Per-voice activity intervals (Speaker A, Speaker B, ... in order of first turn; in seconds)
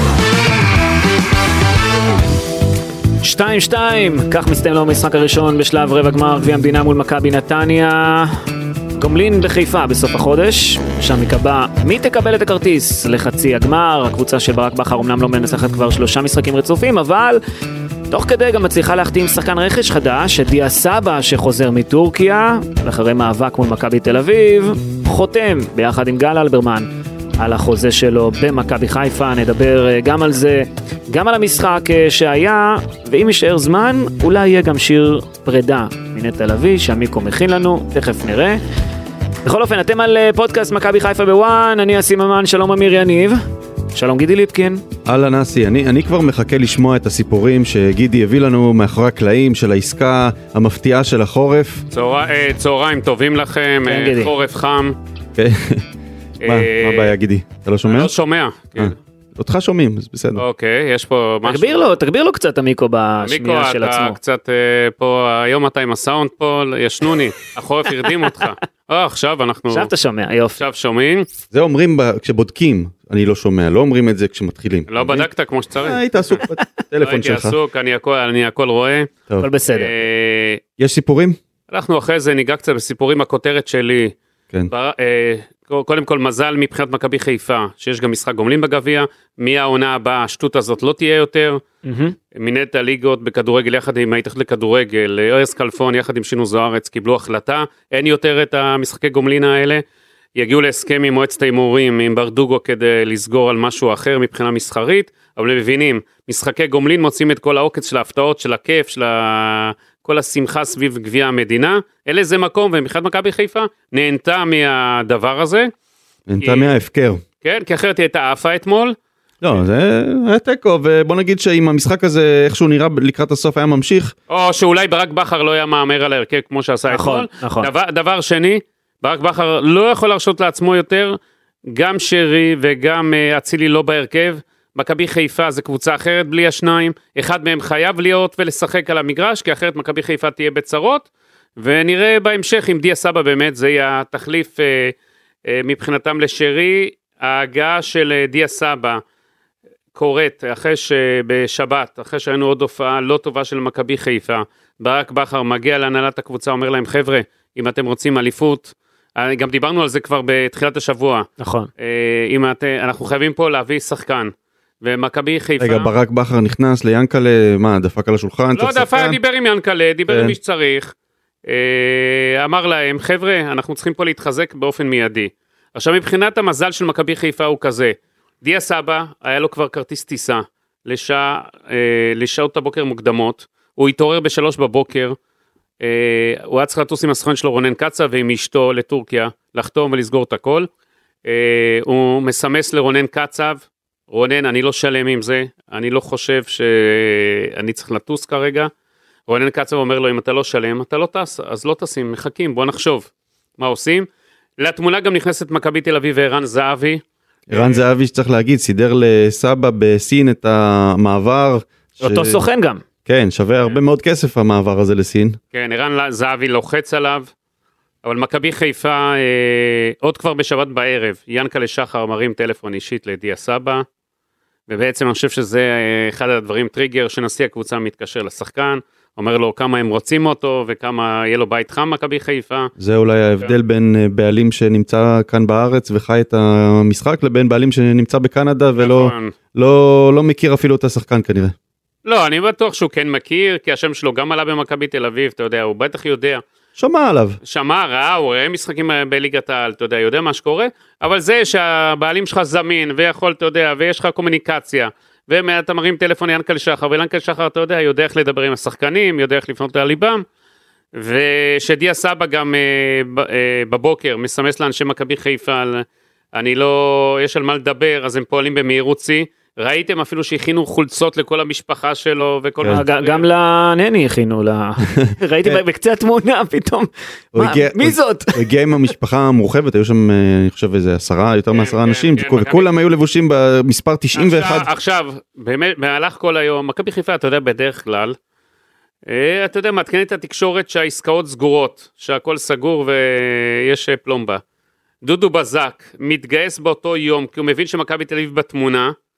Speaker A: 3.2-8.4, 8.9-17.4, 18.1-38.6, 39.4-43.4, 43.9-44.8, 53.9-54.3, 61.4-64.2, 69.7-70.6, 79.4-79.9, 91.8-92.2, 126.9-127.7, 161.4-161.7, 212.0-212.8, 272.7-278.5
Speaker B: 45.0-51.9, 55.4-55.9, 56.5-58.1, 58.8-60.4, 71.5-77.6, 80.8-81.4, 116.3-117.2, 119.4-124.1, 165.6-169.2, 170.1-170.4, 207.5-212.4, 213.1-215.4, 232.8-241.5, 246.8-247.4, 275.1-275.6, 277.3-284.7
Speaker C: 51.9-55.0, 56.4-57.1, 57.9-59.0, 60.4-61.9, 63.2-69.9, 70.6-71.3, 74.9-76.4, 77.0-79.1, 79.7-80.6, 81.7-84.2, 84.7-91.6, 92.3-99.8, 100.4-115.7, 116.4-116.7, 117.4-119.0, 124.3-131.2, 131.7-141.1, 141.6-144.9, 145.5-149.0, 149.9-161.3, 161.8-165.9, 168.5-170.9, 171.5-185.2, 185.8-190.7, 191.2-198.7, 199.3-204.1, 204.6-207.8, 215.5-217.3, 218.0-223.8, 224.7-232.7, 238.8-239.3, 242.1-246.4, 247.4-260.2, 260.9-273.3, 281.5-282.7, 284.1-288.2, 289.1-294.4, 295.0-298.9